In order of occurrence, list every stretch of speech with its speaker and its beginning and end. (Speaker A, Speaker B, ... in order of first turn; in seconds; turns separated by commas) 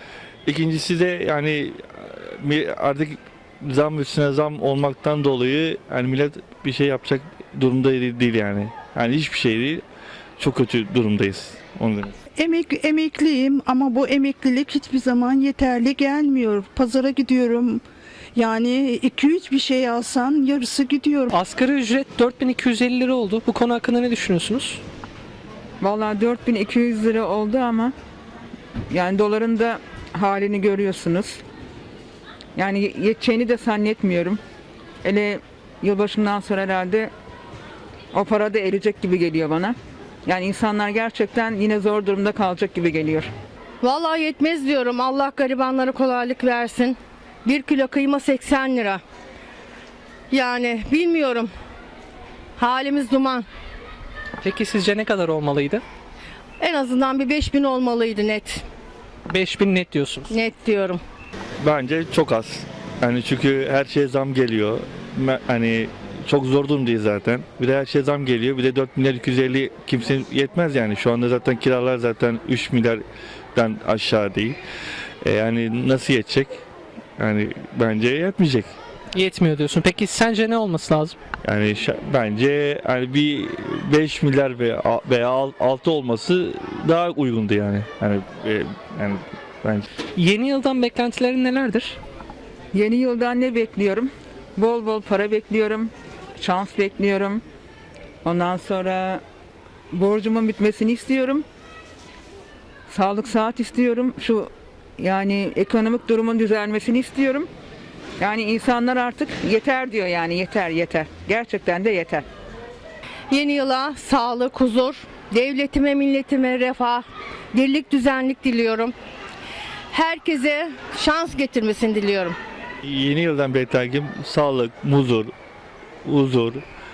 Speaker A: 0.5-9.8, Speaker A: 10.4-12.2, Speaker B: 12.4-17.8, Speaker B: 18.4-21.3, Speaker C: 21.3-24.8, Speaker D: 25.8-27.9, Speaker D: 28.9-31.4, Speaker D: 32.6-34.4, Speaker D: 35.0-37.1, Speaker D: 38.1-43.3, Speaker E: 43.8-49.0, Speaker E: 50.3-51.5, Speaker E: 52.6-53.5, Speaker C: 54.4-55.8, Speaker E: 56.6-58.6, Speaker C: 59.3-60.3, Speaker E: 60.3-61.0, Speaker A: 61.6-73.0, Speaker A: 73.5-74.6, Speaker A: 75.2-76.6, Speaker A: 77.2-78.7, Speaker C: 79.2-81.2, Speaker A: 81.4-89.9, Speaker C: 90.2-92.0, Speaker D: 92.7-97.4, Speaker D: 98.2-99.2, Speaker D: 99.9-101.5, Speaker D: 102.9-107.5, Speaker D: 108.2-112.2, Speaker E: 113.3-118.9, Speaker E: 119.9-122.4, Speaker A: 122.8-125.3, Speaker A: 126.0-126.6